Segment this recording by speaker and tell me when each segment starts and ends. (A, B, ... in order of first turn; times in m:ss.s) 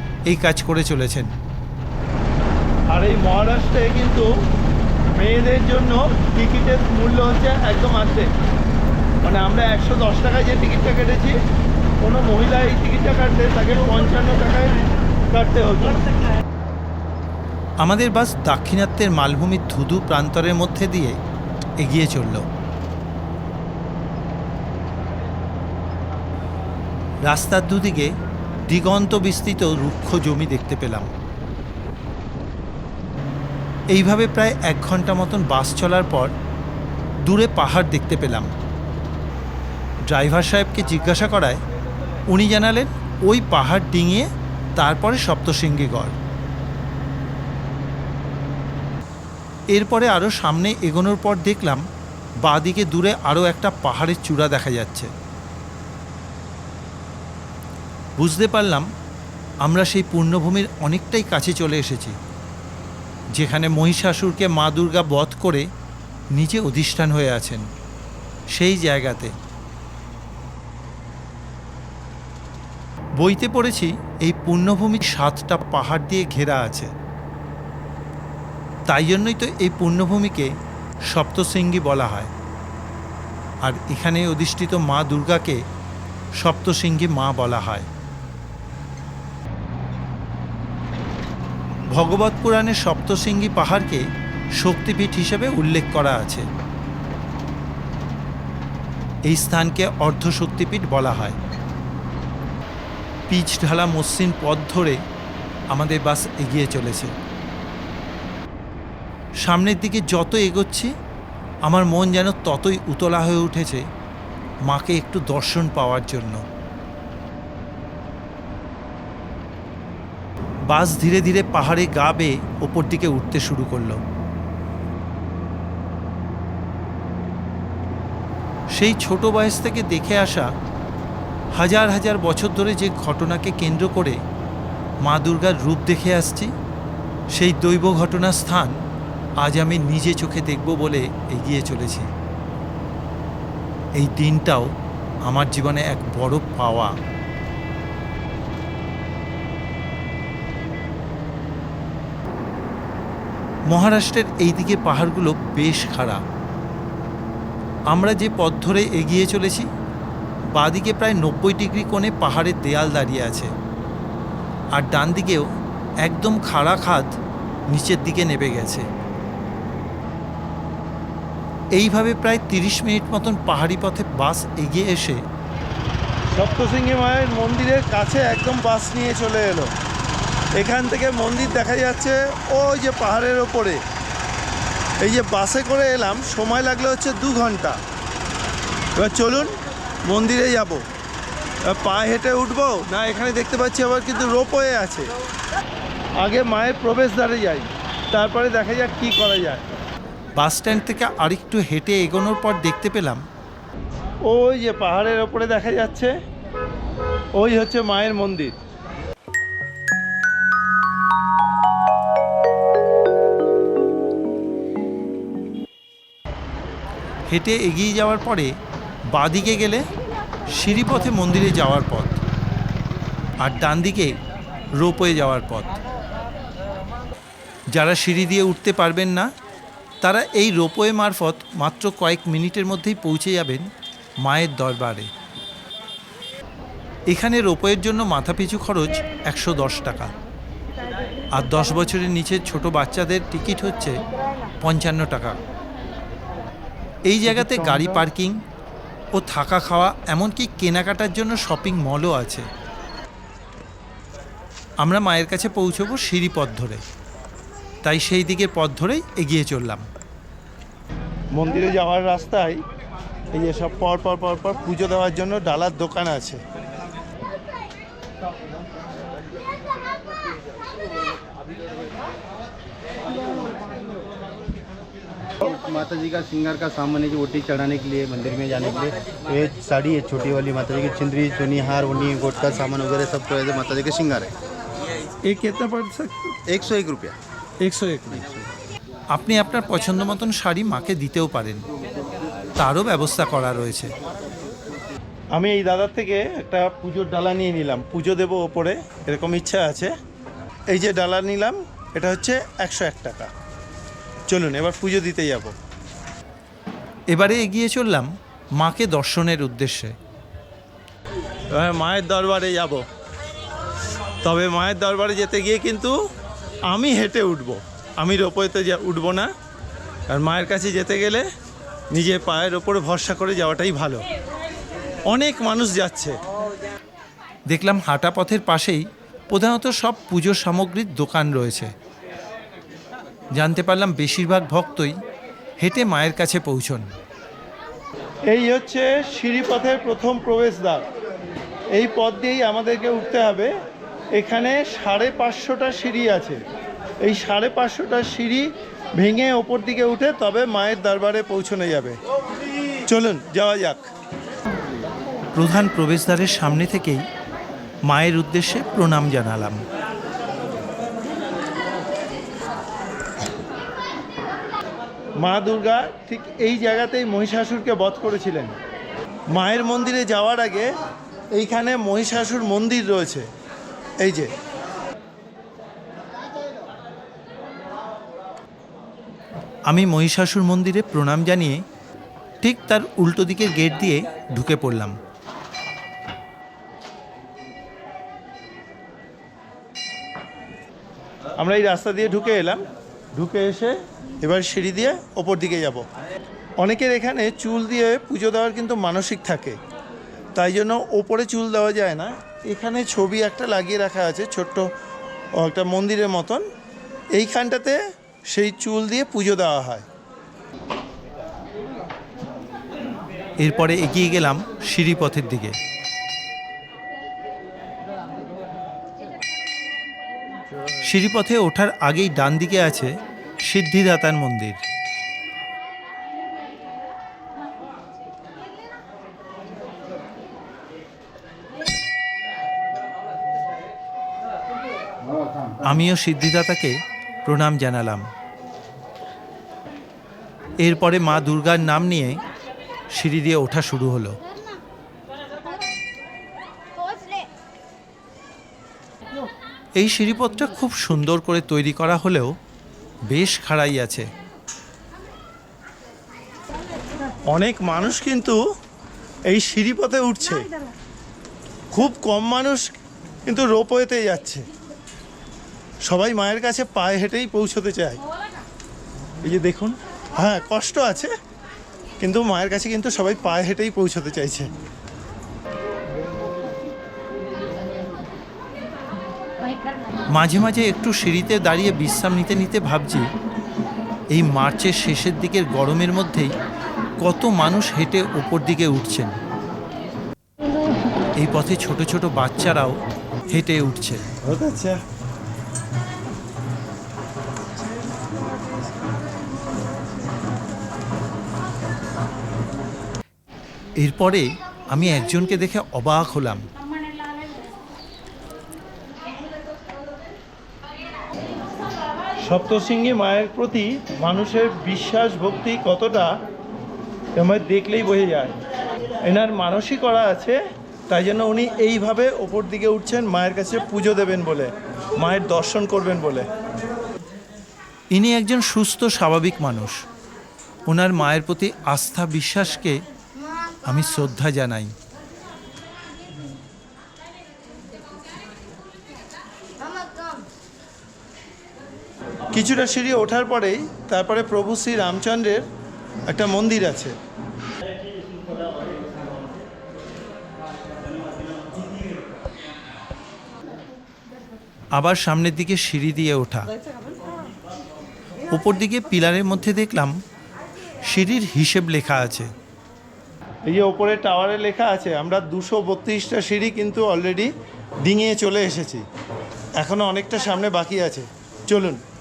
0:00.3-0:01.3 A
0:02.9-0:04.3 B
0:05.2-0:08.3 B
0:09.2-0:11.4 B
0:12.0-0:14.8 B
0:15.3-0:16.0 B
0:17.8-0:21.2 A
0:21.8-0:22.5 A
0:27.2-0:28.1 A
0:28.7-0:31.1 A
0:33.9-0:36.3 A
0:37.2-0:38.5 A
0:40.1-0:41.6 A
0:42.3-0:46.2 A
0:49.7-0:51.8 A
0:52.4-0:55.1 A
0:58.2-0:58.9 A
0:59.6-1:02.2 A
1:03.4-1:05.7 A
1:06.3-1:07.6 A
1:08.5-1:09.3 A
1:13.2-1:16.9 A
1:18.9-1:20.5 A
1:21.1-1:22.3 A
1:23.6-1:25.6 A
1:26.4-1:27.9 A
1:31.9-1:34.0 A
1:34.6-1:36.5 A
1:39.3-1:41.4 A
1:43.3-1:45.0 A
1:45.7-1:47.1 A
1:49.4-1:50.9 A
1:51.7-1:53.8 A
1:54.7-1:56.4 A
2:00.7-2:04.0 A
2:08.7-2:10.5 A
2:11.6-2:14.2 A
2:15.0-2:16.5 A
2:17.3-2:18.8 A
2:19.4-2:22.1 A
2:24.0-2:24.7 A
2:25.2-2:27.0 A
2:33.7-2:36.2 A
2:37.9-2:39.7 A
2:40.5-2:43.5 A
2:44.7-2:45.5 A
2:46.0-2:47.2 A
2:47.7-2:48.9 A
2:51.8-2:55.2 A
2:56.3-2:59.7 B
3:00.6-3:03.8 B
3:05.0-3:07.8 B
3:09.0-3:10.8 B
3:11.7-3:15.1 B
3:16.2-3:19.6 B
3:20.4-3:23.2 A
3:24.2-3:26.1 B
3:27.4-3:28.6 B
3:37.3-3:38.5 A
3:39.1-3:39.9 A
3:40.5-3:42.2 A
3:43.4-3:44.2 A
3:44.8-3:45.7 A
3:47.7-3:49.3 A
3:50.0-3:53.7 A
3:54.2-3:55.1 A
3:57.1-4:00.1 A
4:01.3-4:04.0 A
4:04.6-4:05.4 A
4:07.1-4:08.4 A
4:07.3-4:08.0 B
4:09.1-4:12.5 A
4:14.8-4:16.8 A
4:17.8-4:19.9 A
4:21.3-4:22.6 B
4:23.3-4:26.4 B
4:35.4-4:44.3 C
4:45.2-4:46.3 B
4:46.5-4:47.2 C
4:47.6-4:48.3 B
4:49.1-4:51.6 A
4:52.6-4:53.9 A
4:55.3-4:59.9 B
5:00.7-5:03.3 B
5:04.3-5:05.6 B
5:07.1-5:10.0 A
5:11.5-5:12.8 B
5:14.2-5:16.0 B
5:16.7-5:19.3 B
5:20.1-5:21.2 B
5:21.9-5:24.0 B
5:25.1-5:26.2 B
5:27.5-5:31.7 A
5:33.4-5:34.9 A
5:35.6-5:36.9 A
5:38.3-5:40.8 B
5:41.7-5:43.5 B
5:44.2-5:46.4 B
5:47.0-5:52.0 B
5:52.9-5:53.9 B
5:55.3-5:57.1 A
5:57.9-5:59.6 A
6:05.2-6:08.6 B
6:09.3-6:10.7 B
6:11.3-6:13.3 B
6:14.0-6:14.3 B
6:19.7-6:21.6 A
6:22.4-6:25.0 A
6:31.4-6:35.9 B
6:36.6-6:39.6 B
6:40.4-6:44.7 B
6:45.4-6:46.4 B
6:47.1-6:49.9 B
6:53.4-6:55.6 A
7:00.8-7:04.6 A
7:15.1-7:15.6 C
7:15.6-7:18.1 A
7:20.6-7:22.2 A
7:22.9-7:24.2 A
7:29.8-7:32.4 A
7:33.1-7:34.1 A
7:37.3-7:38.4 B
7:39.3-7:40.5 B
7:41.7-7:42.7 B
7:43.3-7:44.5 B
7:45.9-7:48.0 B
7:49.2-7:51.1 B
7:52.0-7:54.5 B
8:00.1-8:03.1 A
8:04.1-8:06.3 A
8:07.0-8:09.2 A
8:11.2-8:12.8 A
8:13.3-8:14.1 A
8:14.2-8:14.8 B
8:23.8-8:26.5 A
8:32.2-8:36.1 B
8:37.2-8:38.3 B
8:39.0-8:40.4 B
8:40.9-8:46.3 B
8:47.9-8:49.8 A
8:50.7-8:52.8 A
8:53.7-8:54.7 A
9:02.3-9:05.5 B
9:06.1-9:07.0 B
9:14.8-9:16.5 A
9:18.3-9:20.0 A
9:20.9-9:22.3 A
9:23.5-9:27.3 B
9:27.8-9:28.8 B
9:29.6-9:31.8 B